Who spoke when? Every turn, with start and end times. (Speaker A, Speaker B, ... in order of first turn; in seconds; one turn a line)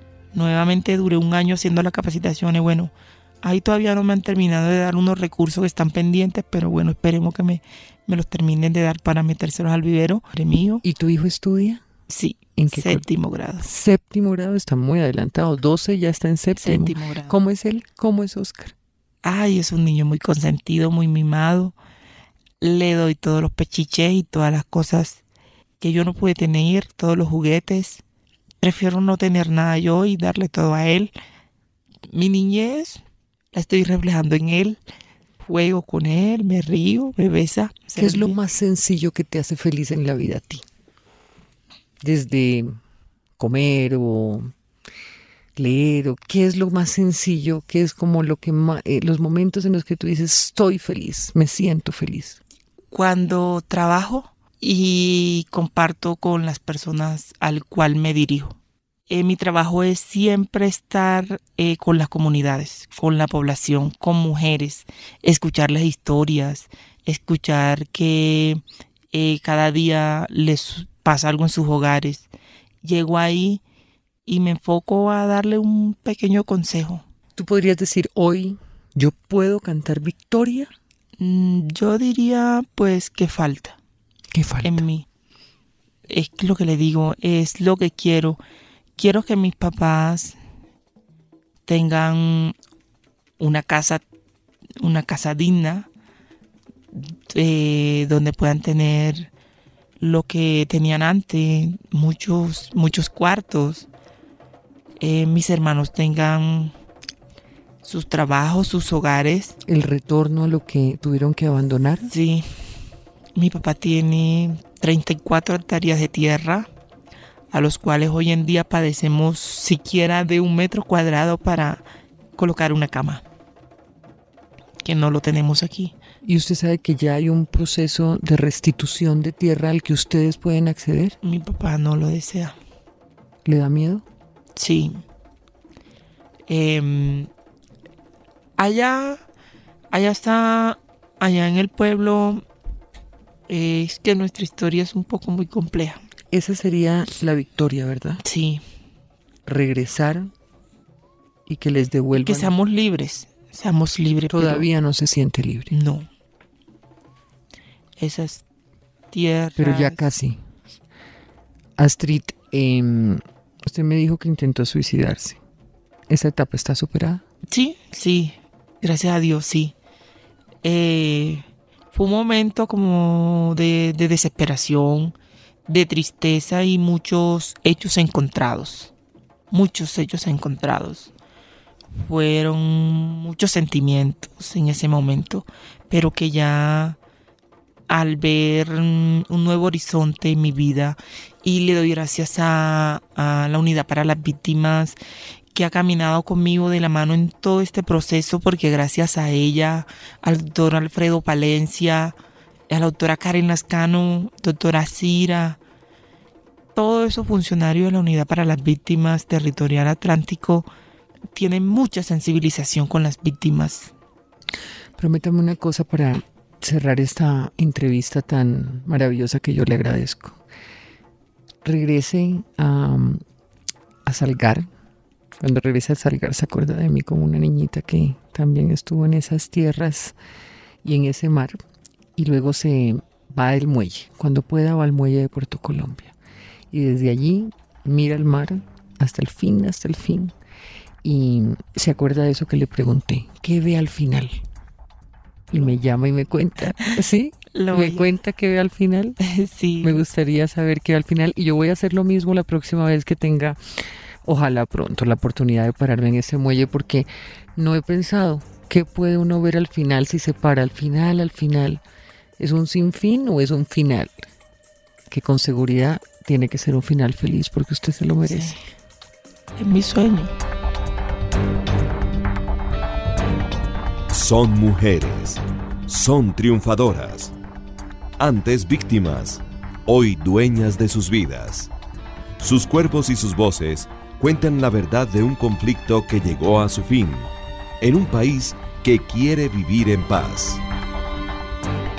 Speaker A: 0.3-10.8
Speaker B: 10.8-11.8
Speaker A: 12.1-13.7
Speaker B: 12.6-13.0
Speaker B: 13.6-18.8
Speaker A: 16.6-17.4
Speaker A: 19.2-21.8
Speaker A: 22.6-25.2
Speaker A: 25.8-28.0
Speaker A: 28.6-31.1
Speaker A: 32.1-33.0
Speaker A: 33.5-34.8
Speaker A: 35.4-38.4
Speaker B: 38.0-40.6
Speaker B: 42.0-42.8
Speaker B: 43.4-44.5
Speaker B: 45.6-52.4
Speaker A: 52.9-58.6
Speaker A: 59.1-72.3
Speaker A: 72.8-73.6
Speaker A: 74.3-77.0
Speaker B: 77.4-80.7
Speaker A: 81.2-83.8
Speaker B: 84.3-84.8
Speaker A: 84.6-85.1
Speaker A: 86.1-88.4
Speaker A: 89.0-90.4
Speaker A: 91.7-92.5
Speaker A: 93.4-94.0
Speaker A: 94.8-95.9
Speaker A: 96.9-99.3
Speaker A: 100.0-103.9
Speaker A: 105.0-106.7
Speaker A: 107.8-109.6
Speaker B: 109.7-112.1
Speaker A: 112.1-112.5
Speaker A: 113.3-116.7
Speaker A: 117.5-121.8
Speaker A: 122.4-123.2
Speaker A: 124.8-126.0
Speaker B: 126.2-131.2
Speaker A: 131.2-132.6
Speaker B: 133.4-134.1
Speaker A: 134.6-135.0
Speaker A: 136.5-137.3
Speaker A: 138.6-139.2
Speaker A: 139.9-142.4
Speaker A: 143.5-146.0
Speaker B: 146.3-148.2
Speaker A: 148.2-148.6
Speaker B: 149.5-150.3
Speaker B: 151.5-152.5
Speaker A: 152.2-154.7
Speaker B: 154.3-155.7
Speaker A: 155.7-156.1
Speaker A: 158.0-158.4
Speaker A: 159.1-160.1
Speaker B: 159.6-160.4
Speaker B: 161.8-165.4
Speaker B: 166.1-167.2
Speaker A: 167.5-169.8
Speaker A: 170.6-175.2
Speaker A: 175.7-178.9
Speaker A: 179.5-181.1
Speaker A: 182.0-187.0
Speaker A: 187.9-195.0
Speaker A: 195.5-202.2
Speaker A: 202.7-205.6
Speaker A: 206.8-210.7
Speaker A: 211.3-213.9
Speaker B: 215.0-220.4
Speaker B: 221.6-223.2
Speaker B: 224.1-224.7
Speaker B: 225.4-230.2
Speaker B: 230.8-231.6
Speaker B: 232.2-236.1
Speaker B: 236.7-240.3
Speaker B: 241.0-244.4
Speaker B: 245.5-249.2
Speaker A: 247.5-248.1
Speaker A: 249.2-250.0
Speaker B: 249.8-253.6
Speaker B: 254.2-261.8
Speaker B: 262.4-264.2
Speaker B: 265.1-268.6
Speaker A: 268.2-268.6
Speaker A: 269.6-270.3
Speaker C: 274.1-277.3
Speaker C: 278.2-281.7
Speaker C: 282.4-290.6